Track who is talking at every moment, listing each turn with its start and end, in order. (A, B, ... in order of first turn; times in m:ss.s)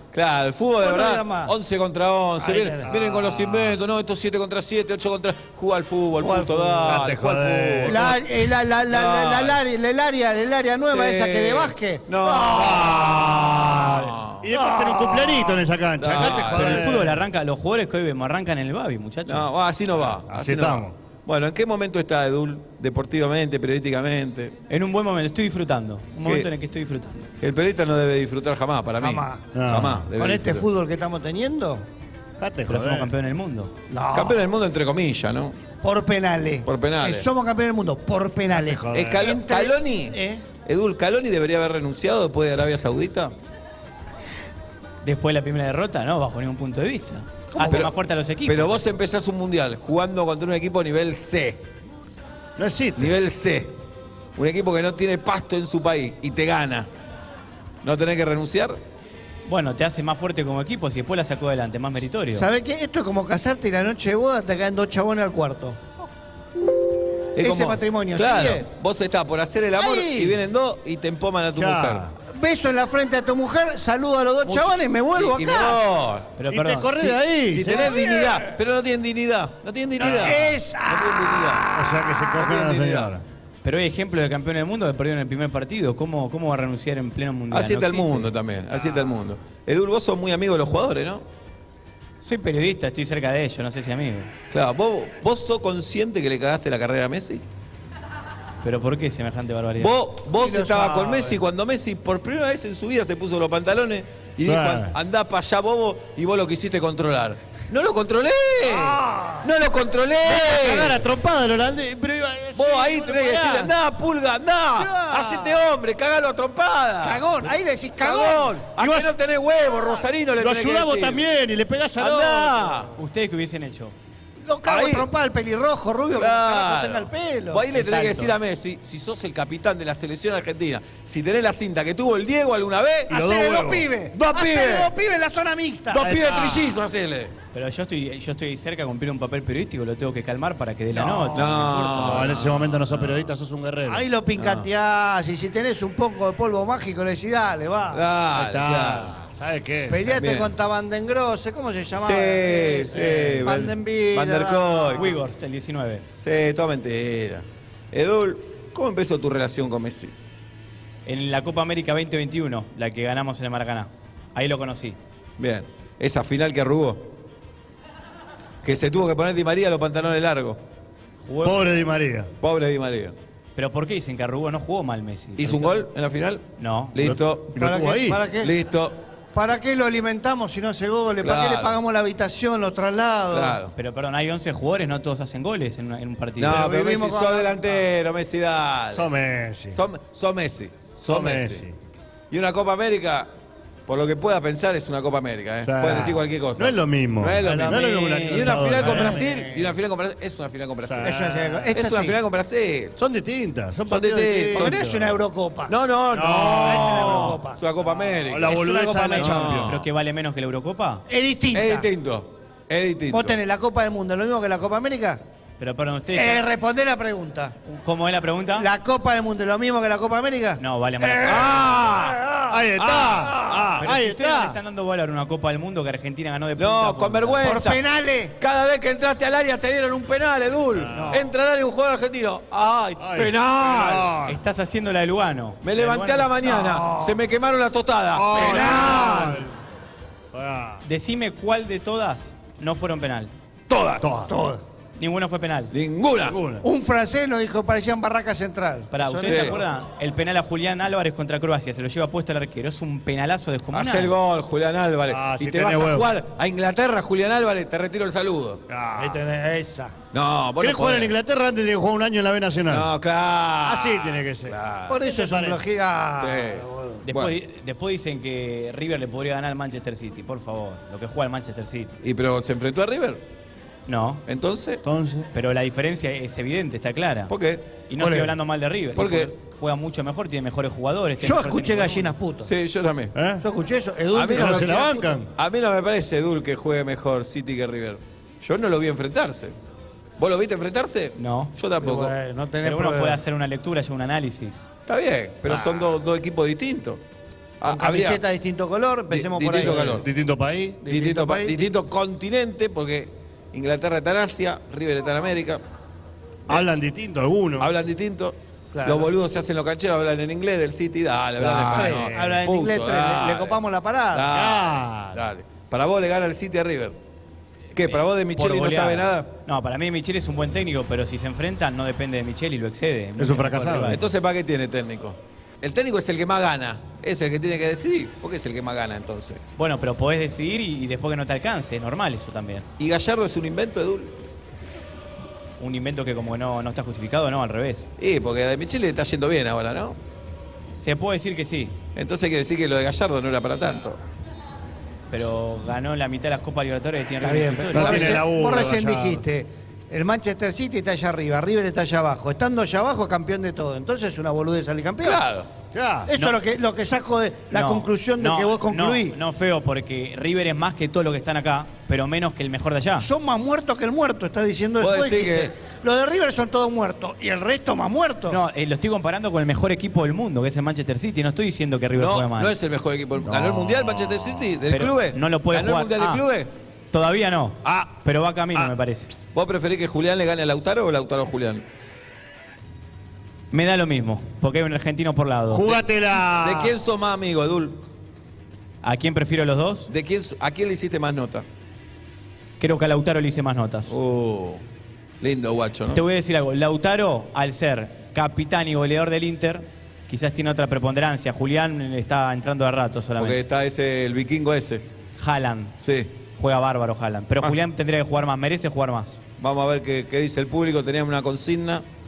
0:00.1-0:08.2 A
0:00.8-0:01.5 B
0:02.4-0:02.9 B
0:02.9-0:03.7 C
0:06.2-0:07.1 B
0:06.9-0:08.1 C
0:07.9-0:13.3 B
0:08.9-0:09.6 A
0:10.9-0:14.5 A
0:12.5-0:17.2 C
0:14.5-0:15.6 B
0:16.0-0:16.9 A
0:16.5-0:19.5 D
0:19.3-0:24.5 A
0:20.3-0:20.9 C
0:24.7-0:27.3 D
0:27.4-0:30.7 A
0:29.0-0:29.6 B
0:29.5-0:30.1 C
0:30.1-0:31.8 B
0:32.4-0:33.1 C
0:32.7-0:33.7 D
0:33.9-0:34.4 B
0:34.1-0:35.6 A
0:35.8-0:40.4 B
0:36.7-0:37.3 A
0:38.6-0:39.2 C
0:38.9-0:43.3 A
0:45.0-0:48.8 D
0:47.6-0:47.9 B
0:47.6-0:47.9 A
0:48.4-0:51.6 A
0:52.6-0:53.1 C
0:53.0-0:53.7 A
0:54.4-0:56.9 A
0:57.8-0:58.8 A
0:59.5-1:02.5 D
1:02.3-1:05.8 B
1:07.4-1:12.0 A
1:07.4-1:08.7 B
1:09.8-1:10.4 B
1:11.6-1:12.1 C
1:12.3-1:15.8 B
1:14.4-1:16.3 A
1:16.4-1:17.0 D
1:16.5-1:17.9 C
1:16.9-1:21.7 A
1:17.8-1:18.5 B
1:20.0-1:22.3 B
1:20.0-1:20.5 C
1:21.8-1:23.2 C
1:22.3-1:23.1 A
1:23.6-1:28.3 D
1:27.5-1:31.2 A
1:32.2-1:34.3 D
1:34.5-1:37.4 A
1:38.6-1:39.9 D
1:39.8-1:51.0 A
1:40.4-1:41.4 B
1:44.5-1:44.9 C
1:48.6-1:49.5 B
1:50.2-1:53.7 C
1:52.6-1:57.3 A
1:54.8-1:55.5 C
1:57.0-1:58.7 B
1:58.0-2:01.2 A
1:58.8-1:59.1 C
2:00.4-2:02.8 C
2:02.0-2:02.9 A
2:03.0-2:04.0 D
2:04.4-2:07.7 B
2:04.6-2:05.1 A
2:06.1-2:13.1 A
2:07.8-2:08.3 D
2:13.1-2:13.9 C
2:13.1-2:16.2 B
2:14.1-2:14.9 A
2:15.9-2:17.3 A
2:16.0-2:16.7 C
2:17.5-2:22.2 D
2:21.0-2:21.6 B
2:21.4-2:23.3 A
2:21.7-2:24.0 C
2:23.9-2:28.0 B
2:24.4-2:24.7 A
2:27.9-2:29.1 A
2:28.3-2:30.2 C
2:29.9-2:35.2 B
2:30.1-2:30.5 A
2:32.0-2:35.2 A
2:33.0-2:33.5 C
2:35.0-2:36.0 D
2:36.2-2:40.1 A
2:41.1-2:45.0 D
2:45.4-2:47.1 A
2:48.6-2:50.6 A
2:51.2-2:51.7 D
2:51.4-2:52.3 C
2:52.4-2:53.2 A
2:53.6-2:55.9 D
2:55.4-2:57.5 A
2:56.6-2:57.0 D
2:57.0-2:58.2 C
2:57.6-2:58.5 B
2:58.4-2:59.0 A
2:59.3-3:03.6 B
3:01.2-3:01.8 A
3:03.3-3:03.7 A
3:03.8-3:06.6 D
3:06.4-3:09.1 A
3:06.4-3:07.7 B
3:08.9-3:09.8 C
3:09.7-3:11.6 A
3:11.1-3:11.7 C
3:12.3-3:13.3 A
3:13.9-3:21.2 A
3:15.6-3:19.3 C
3:17.4-3:19.6 B
3:20.8-3:21.7 C
3:21.0-3:22.2 B
3:21.7-3:23.0 A
3:23.0-3:25.1 C
3:23.9-3:24.8 A
3:24.5-3:25.8 B
3:25.7-3:28.6 A
3:26.1-3:27.4 C
3:26.6-3:27.6 B
3:28.2-3:29.8 C
3:28.4-3:29.6 B
3:29.2-3:29.8 A
3:29.6-3:31.0 D
3:31.1-3:31.9 B
3:31.5-3:33.4 A
3:33.1-3:35.2 B
3:35.6-3:36.4 D
3:36.1-3:37.5 B
3:37.7-3:38.7 D
3:38.6-3:43.8 B
3:40.6-3:41.7 D
3:41.2-3:42.2 A
3:42.5-3:44.6 C
3:42.8-3:43.6 A
3:43.8-3:47.5 D
3:46.6-3:47.8 A
3:47.4-3:48.3 B
3:48.4-3:54.1 A
3:50.8-3:51.2 C
3:50.9-3:51.2 B
3:53.0-3:54.4 C
3:54.3-3:56.3 D
3:55.6-3:59.5 A
3:56.4-3:57.2 B
3:58.1-3:59.5 C
3:58.3-3:59.1 B
4:00.3-4:00.8 C
4:00.8-4:03.3 D
4:03.7-4:04.2 A
4:04.0-4:04.3 C
4:04.3-4:04.6 B
4:05.0-4:05.7 D
4:05.7-4:06.4 A
4:06.2-4:06.6 C
4:06.6-4:09.6 B
4:08.9-4:14.1 D
4:09.2-4:09.6 A
4:13.7-4:18.6 A
4:15.1-4:16.1 C
4:18.7-4:19.2 C
4:19.0-4:20.0 B
4:20.1-4:21.1 A
4:20.6-4:22.9 C
4:22.7-4:25.0 A
4:23.6-4:25.6 C
4:24.9-4:27.0 B
4:26.2-4:27.4 A
4:27.0-4:32.0 D
4:32.0-4:33.2 A
4:33.9-4:34.2 D
4:34.3-4:34.8 A
4:34.8-4:35.3 C
4:35.3-4:37.3 D
4:37.3-4:37.6 A
4:37.9-4:42.1 D
4:38.0-4:38.3 B
4:39.0-4:39.3 A
4:41.2-4:42.5 B
4:42.4-4:43.1 A
4:43.2-4:43.4 C
4:43.4-4:45.2 B
4:44.1-4:44.8 A
4:44.3-4:45.3 C
4:45.4-4:49.5 A
4:50.2-4:52.1 A
4:51.2-4:51.5 D
4:51.8-4:53.2 B
4:52.6-4:54.7 D
4:54.9-4:57.0 A
4:57.6-4:58.2 A
4:57.7-5:00.0 B
4:59.1-5:00.1 A
4:59.6-5:00.8 C
5:00.8-5:01.6 B
5:00.9-5:05.6 A
5:06.5-5:07.7 C
5:07.6-5:13.6 A
5:08.7-5:09.1 B
5:11.4-5:12.4 C
5:11.7-5:14.3 B
5:14.1-5:17.0 A
5:14.3-5:15.2 C
5:17.7-5:19.3 A
5:17.8-5:24.0 D
5:23.2-5:24.0 C
5:23.9-5:29.4 A
5:29.6-5:32.7 D
5:32.8-5:34.1 A
5:35.6-5:37.9 D
5:38.0-5:40.0 A
5:40.8-5:41.8 D
5:42.0-5:44.0 A
5:45.1-5:48.1 D
5:47.2-5:55.2 B
5:47.7-5:49.2 C
5:47.9-5:48.2 A
5:55.0-5:55.5 A
5:55.7-5:56.1 C
5:56.1-5:59.2 B
5:57.5-6:03.1 D
6:03.0-6:08.4 B
6:04.8-6:05.5 A
6:08.3-6:12.5 D
6:12.0-6:16.5 A
6:13.2-6:14.1 C
6:14.7-6:16.2 D
6:16.9-6:19.1 D
6:19.3-6:21.6 A
6:23.5-6:25.8 D
6:25.5-6:26.8 C
6:26.4-6:27.8 A
6:28.8-6:29.9 D
6:29.9-6:31.4 A
6:32.6-6:34.0 D
6:33.9-6:34.6 A
6:35.2-6:36.0 A
6:35.9-6:43.4 D
6:43.2-6:44.8 A
6:45.2-6:45.8 D
6:45.8-6:46.1 A
6:46.4-6:49.2 D
6:49.4-6:51.8 A